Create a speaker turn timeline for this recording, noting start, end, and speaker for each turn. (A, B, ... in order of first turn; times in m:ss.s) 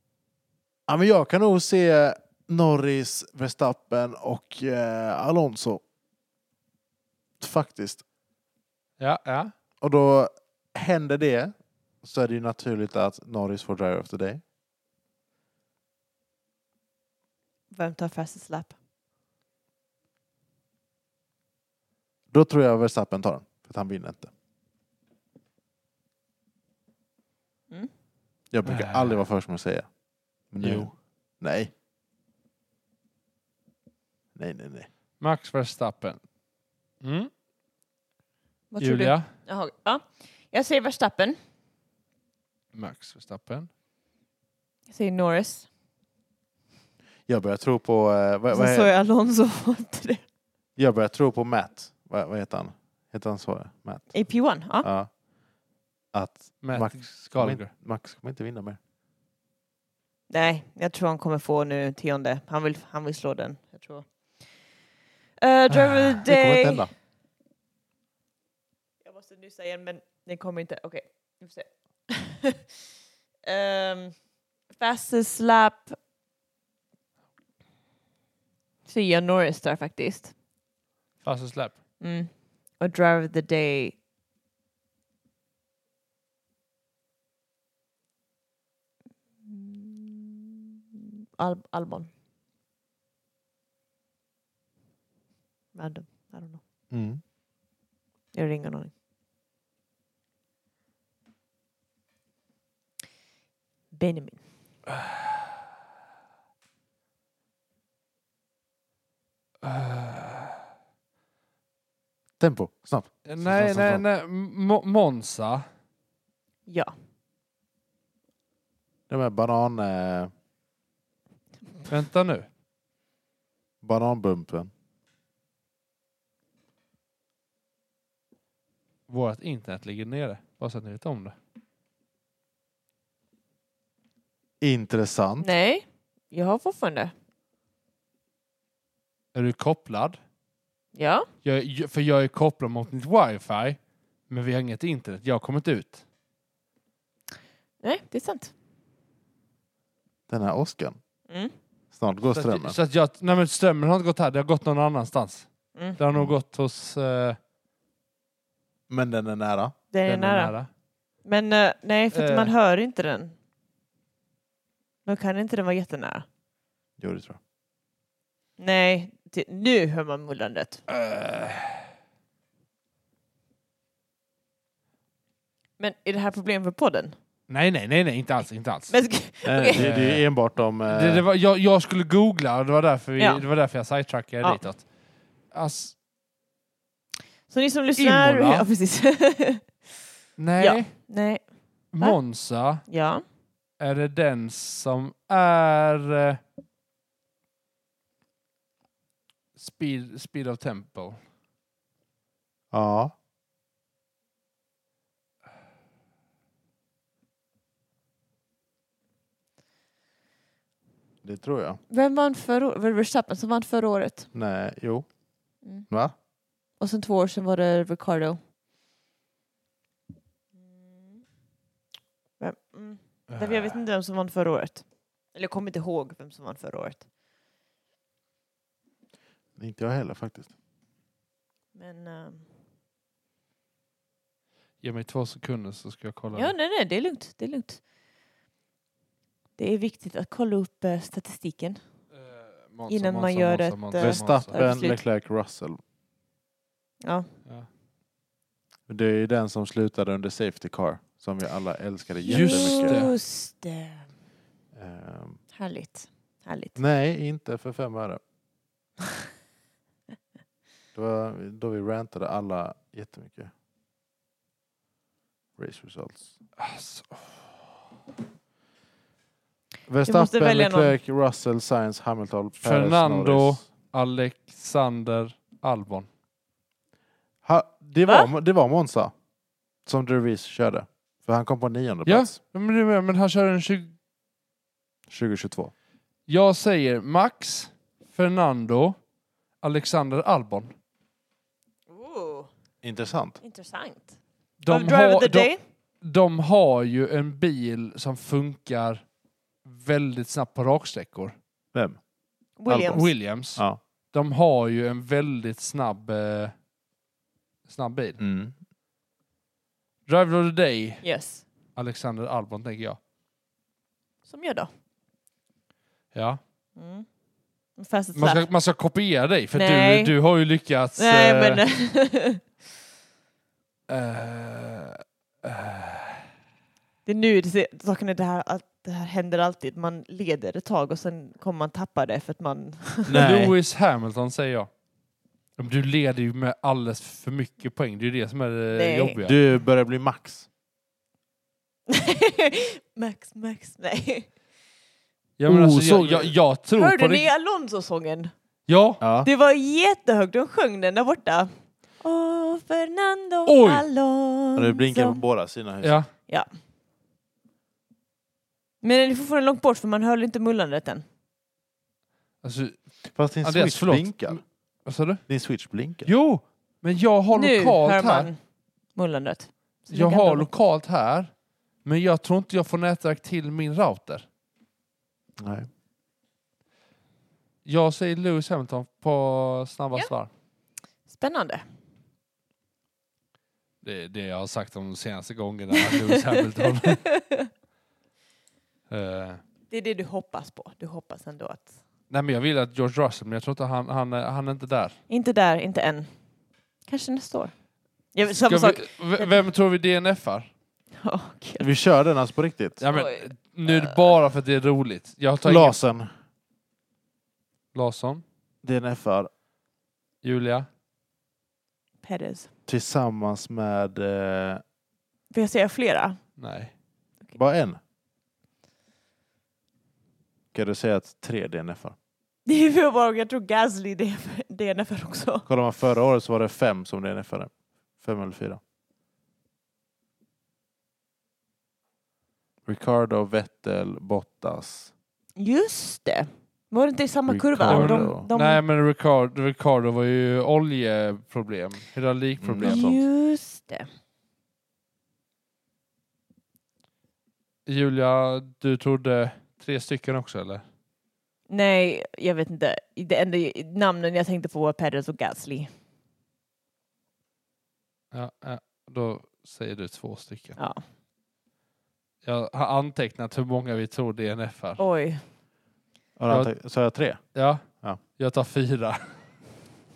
0:00.9-0:05.8 A
0:07.4-0:08.0 A
0:09.0-0:09.5 B
0:09.8-0:14.4 A
0:17.7-0:18.7 C
0:22.3-0:24.3 A
0:28.5-0:29.9 A
0:28.6-0:29.2 B
0:30.5-0:31.7 A
0:30.6-0:30.9 B
0:34.3-0:34.9 A
0:35.2-0:36.2 B
0:37.0-0:37.3 B
0:38.7-0:41.4 C
0:38.8-0:39.3 B
0:42.7-0:43.7 B
0:44.9-0:45.7 C
0:47.3-0:48.9 A
0:48.5-0:50.2 C
0:50.8-0:55.1 A
0:54.1-0:54.9 C
0:56.1-0:58.8 A
0:56.6-0:57.7 B
1:00.3-1:04.1 C
1:05.4-1:06.9 C
1:05.7-1:06.2 B
1:06.2-1:06.9 A
1:09.0-1:12.6 C
1:13.4-1:14.2 C
1:14.7-1:16.0 C
1:18.9-1:20.3 C
1:21.2-1:21.8 B
1:22.0-1:24.0 C
1:29.4-1:32.1 C
1:35.7-1:36.6 C
1:36.9-1:37.2 A
1:38.3-1:38.9 C
1:43.9-1:44.4 C
1:44.9-1:45.4 B
1:49.6-1:50.6 B
1:52.4-1:54.0 A
1:53.2-1:55.6 B
1:56.7-1:56.9 C
1:59.1-2:00.3 A
2:01.9-2:02.5 B
2:03.8-2:04.7 A
2:09.1-2:11.3 B
2:14.6-2:15.5 A
2:15.4-2:17.1 C
2:19.3-2:20.2 B
2:20.9-2:21.3 C
2:21.4-2:23.8 B
2:24.3-2:26.0 B
2:27.8-2:28.5 C
2:30.3-2:31.0 A
2:31.9-2:32.8 A
2:32.3-2:37.4 B
2:38.9-2:39.7 A
2:39.9-2:40.6 C
2:40.1-2:40.7 B
2:41.2-2:43.3 C
2:42.1-2:42.5 B
2:45.0-2:46.3 C
2:47.0-2:47.4 A
2:48.6-2:50.8 C
2:50.9-2:51.8 B
2:55.8-2:57.2 C
2:57.5-2:59.0 B
2:58.9-2:59.9 C
2:59.4-3:01.2 A
2:59.8-3:00.3 B
3:00.8-3:04.8 B
3:03.2-3:03.4 C
3:05.5-3:05.9 B
3:07.5-3:09.7 C
3:08.0-3:08.7 B
3:10.4-3:10.9 B
3:10.6-3:12.2 C
3:11.9-3:12.8 B
3:12.8-3:13.2 C
3:13.8-3:16.4 B
3:19.6-3:21.2 B
3:22.7-3:23.1 A
3:31.2-3:31.8 A
3:31.9-3:34.3 C
3:34.3-3:35.1 A
3:35.9-3:36.1 A
3:36.8-3:38.4 C
3:40.7-3:41.2 C
3:42.4-3:47.0 C
3:43.3-3:43.8 B
3:49.6-3:50.5 A
3:51.7-3:52.4 C
3:54.8-3:56.5 B
3:56.3-3:57.8 C
3:59.6-4:01.8 C
4:02.1-4:04.6 B
4:02.9-4:05.0 C
4:04.0-4:05.8 A
4:07.0-4:07.3 C
4:08.9-4:12.9 A
4:12.3-4:14.1 C
4:12.3-4:13.1 B
4:14.7-4:15.4 A
4:15.5-4:16.8 C
4:16.8-4:18.2 A
4:20.9-4:23.5 A
4:25.6-4:26.3 A
4:26.6-4:27.4 B
4:29.9-4:33.6 A
4:30.0-4:31.0 C
4:32.6-4:36.1 B
4:37.4-4:39.1 A
4:39.8-4:42.3 A
4:42.0-4:43.9 B
4:45.1-4:45.7 A
4:46.3-4:49.0 B
4:49.6-4:50.7 B
4:51.9-4:52.5 C
4:52.8-4:53.4 A
4:53.4-4:54.2 C
4:54.6-4:55.5 B
4:54.7-4:55.6 C
4:56.0-4:59.0 B
4:59.6-5:01.3 B
5:01.7-5:02.0 A
5:02.6-5:03.1 C
5:02.7-5:06.5 B
5:07.6-5:08.2 B
5:08.2-5:08.5 A
5:10.1-5:11.0 B
5:11.0-5:11.4 C
5:11.8-5:13.0 B
5:14.3-5:14.7 C
5:16.1-5:16.4 B
5:16.8-5:17.0 C
5:17.8-5:18.4 C
5:18.1-5:21.6 B
5:19.5-5:20.1 C
5:21.0-5:22.4 C
5:23.9-5:26.2 B
5:27.0-5:33.2 C
5:33.1-5:33.5 A
5:33.2-5:34.7 B
5:35.6-5:39.4 B
5:38.7-5:39.2 C
5:39.2-5:40.5 A
5:41.9-5:44.3 C
5:45.4-5:47.3 B
5:45.5-5:46.3 A
5:46.8-5:48.3 C
5:48.7-5:49.0 B
5:49.0-5:49.3 A
5:49.2-5:55.2 C
5:53.4-5:53.8 B
5:54.6-5:56.0 A
5:55.8-5:56.1 B
5:58.8-6:01.0 C
6:02.4-6:02.8 B
6:03.1-6:04.4 A
6:03.4-6:05.2 B
6:05.3-6:06.1 A
6:06.0-6:08.3 B
6:07.3-6:08.4 C
6:08.9-6:10.5 C
6:09.9-6:11.3 B
6:11.8-6:14.2 B
6:15.4-6:15.7 A
6:17.6-6:20.3 B
6:21.1-6:21.6 C
6:23.8-6:27.0 B
6:25.7-6:27.5 C
6:28.9-6:29.4 B
6:29.7-6:31.7 C
6:32.1-6:35.0 B
6:35.1-6:36.1 C
6:36.9-6:37.5 C
6:38.1-6:39.4 C
6:38.3-6:40.5 B
6:41.0-6:41.7 C
6:41.6-6:42.8 A
6:42.8-6:45.8 B
6:42.9-6:44.0 C
6:45.4-6:46.1 A
6:47.7-6:48.2 B
6:48.6-6:49.3 A
6:50.2-6:50.7 B
6:52.0-6:52.5 C
6:52.7-6:54.6 A
6:55.3-6:56.2 C
6:56.4-6:56.7 B
6:57.3-6:57.8 A
7:00.5-7:02.0 A
7:02.4-7:05.5 C
7:05.4-7:08.6 A
7:12.6-7:14.9 A
7:15.4-7:18.6 C
7:17.3-7:18.2 A
7:17.7-7:22.8 B
7:22.4-7:23.0 A
7:22.6-7:23.9 C
7:27.6-7:30.6 B
7:31.5-7:35.7 C
7:38.1-7:40.6 B
7:40.6-7:40.8 C
7:42.2-7:44.8 B
7:44.8-7:45.2 C
7:46.2-7:47.2 A
7:46.3-7:46.6 B
7:47.3-7:49.1 B